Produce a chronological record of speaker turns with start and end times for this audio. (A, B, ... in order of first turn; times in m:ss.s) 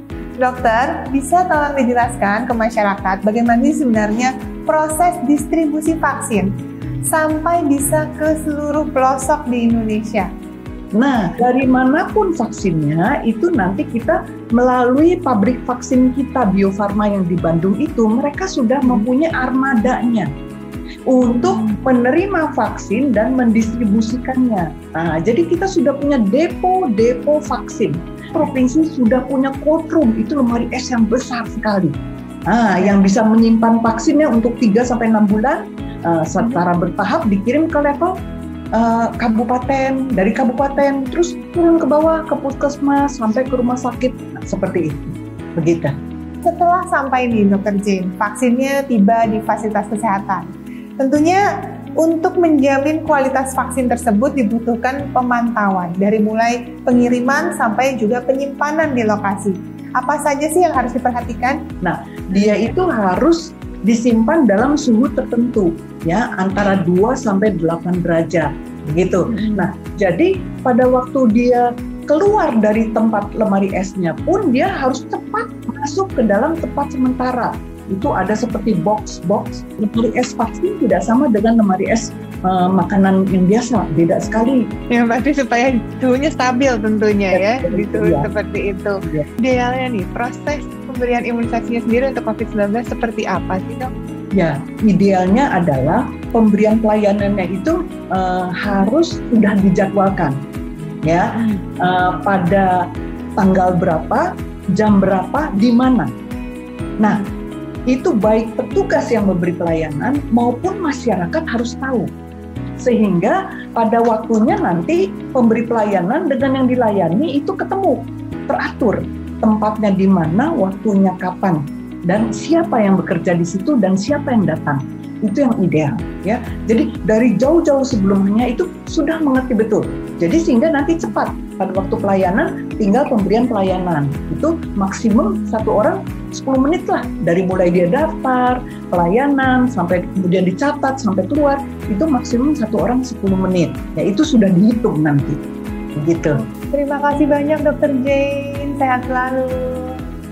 0:00.4-0:06.6 A
0:07.1-0:10.3 A
0:11.0-0:20.3 B
0:21.0-0:31.9 B
0:32.5-0:38.1 B
0:38.7-0:45.9 B
0:46.4-0:51.5 A
0:52.0-1:01.6 A
1:01.8-1:24.7 B
1:09.4-1:09.7 A
1:24.9-1:33.9 A
1:27.3-1:28.3 B
1:34.3-1:40.4 B
1:41.0-1:42.8 B
1:43.4-1:46.1 B
1:47.0-1:47.2 B
1:47.9-1:52.1 B
1:52.8-2:25.4 B
2:26.0-2:26.4 B
2:26.5-2:30.0 A